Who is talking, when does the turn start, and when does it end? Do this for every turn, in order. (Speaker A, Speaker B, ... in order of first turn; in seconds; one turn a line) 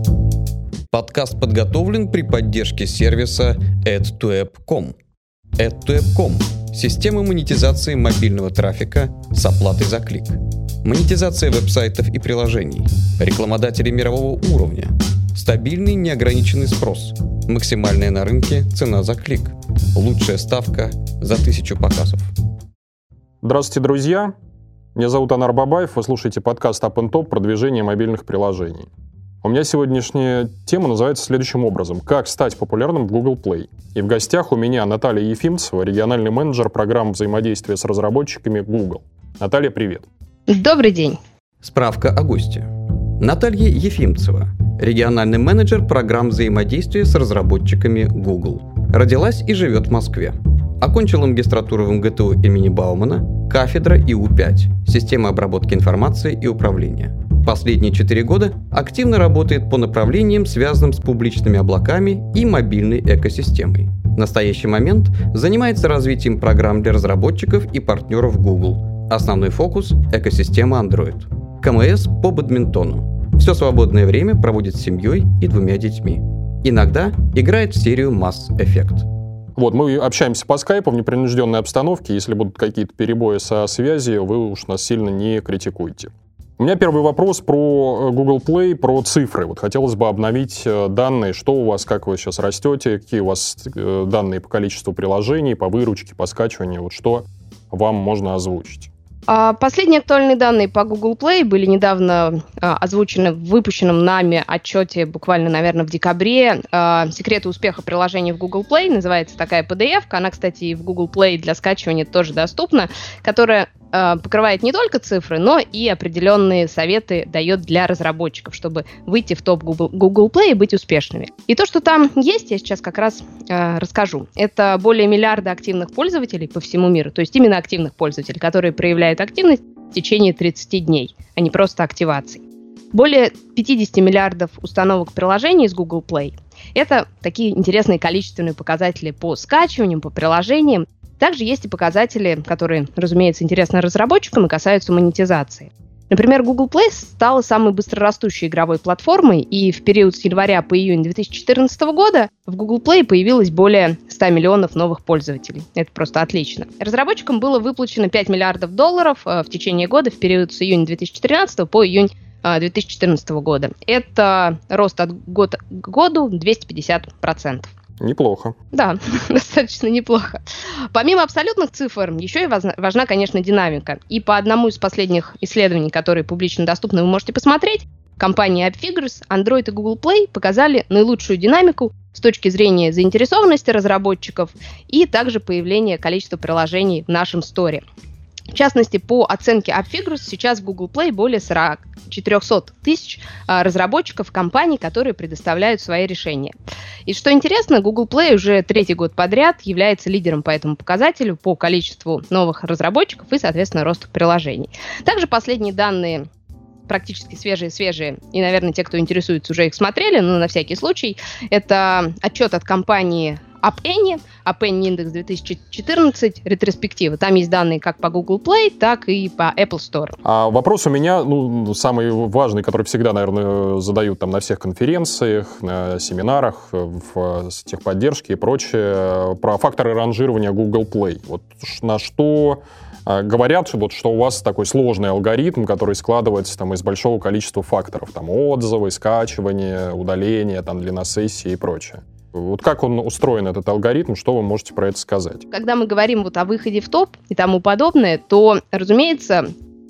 Speaker A: 0.9-5.0
Speaker A: 5.6-22.3
Speaker B: 23.4-24.3
Speaker B: 24.9-28.9
Speaker B: 29.4-40.1
Speaker C: 40.5-41.2
Speaker A: 41.6-79.1
Speaker B: 79.5-98.9
Speaker C: 99.3-132.4
Speaker C: 132.9-167.7
Speaker B: 168.0-168.6
Speaker C: 168.7-170.4
Speaker C: 170.9-187.8
Speaker C: 188.5-196.5
Speaker C: 197.1-206.3
Speaker C: 206.9-220.2
Speaker B: 220.2-245.4
Speaker C: 245.5-249.5